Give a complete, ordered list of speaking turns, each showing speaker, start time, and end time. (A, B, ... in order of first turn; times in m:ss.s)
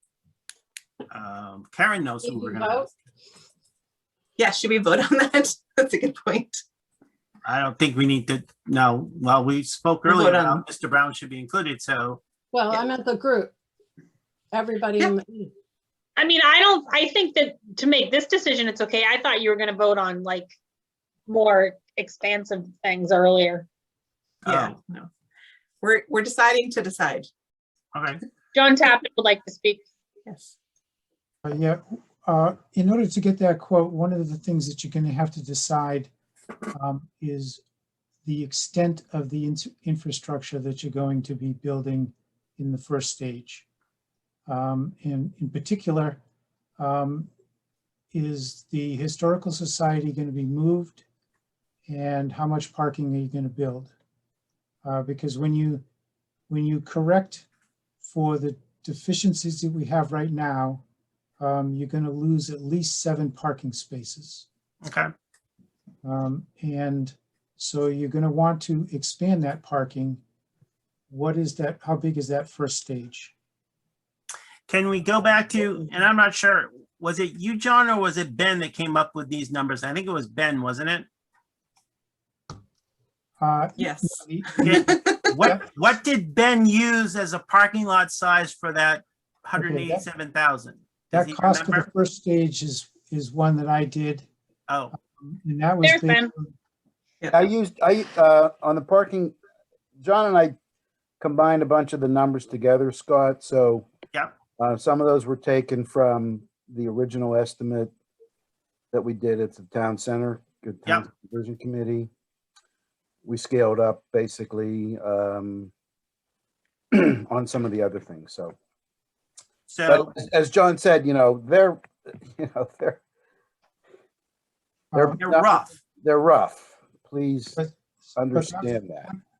0:01.1-0:02.9 A
0:02.2-0:02.9 B
0:04.4-0:06.6 C
0:07.5-0:12.2 A
0:10.1-0:10.6 C
0:12.5-0:13.5 B
0:14.5-0:15.5 B
0:16.2-0:20.5 D
0:21.3-0:23.7 D
0:24.4-0:24.7 A
0:24.4-0:25.1 C
0:25.8-0:27.3 C
0:27.9-0:28.2 A
0:28.5-0:29.8 D
0:30.3-0:30.6 C
0:31.4-0:36.1 E
0:36.7-0:37.6 E
0:38.2-0:43.7 E
0:44.5-0:46.2 E
0:46.8-0:47.3 E
0:48.1-0:51.0 E
0:51.9-0:53.9 E
0:54.8-0:55.8 E
0:56.5-0:57.5 E
0:58.0-1:00.8 E
1:01.4-1:04.5 E
1:04.8-1:05.1 A
1:06.0-1:10.2 E
1:11.1-1:13.3 E
1:14.7-1:21.1 A
1:23.4-1:25.6 E
1:23.8-1:25.3 C
1:24.6-1:31.9 A
1:29.6-1:30.1 E
1:31.1-1:34.3 E
1:34.7-1:34.9 A
1:35.0-1:36.5 E
1:35.8-1:36.3 D
1:37.3-1:39.4 F
1:40.0-1:40.6 F
1:41.2-1:43.9 F
1:44.6-1:47.9 F
1:48.9-1:52.1 F
1:53.2-1:55.7 F
1:56.9-1:58.6 F
1:59.7-2:00.1 A
1:59.9-2:03.0 F
2:04.9-2:05.2 E
2:05.0-2:07.6 F
2:05.2-2:05.7 A
2:07.6-2:09.2 E
2:08.2-2:09.1 F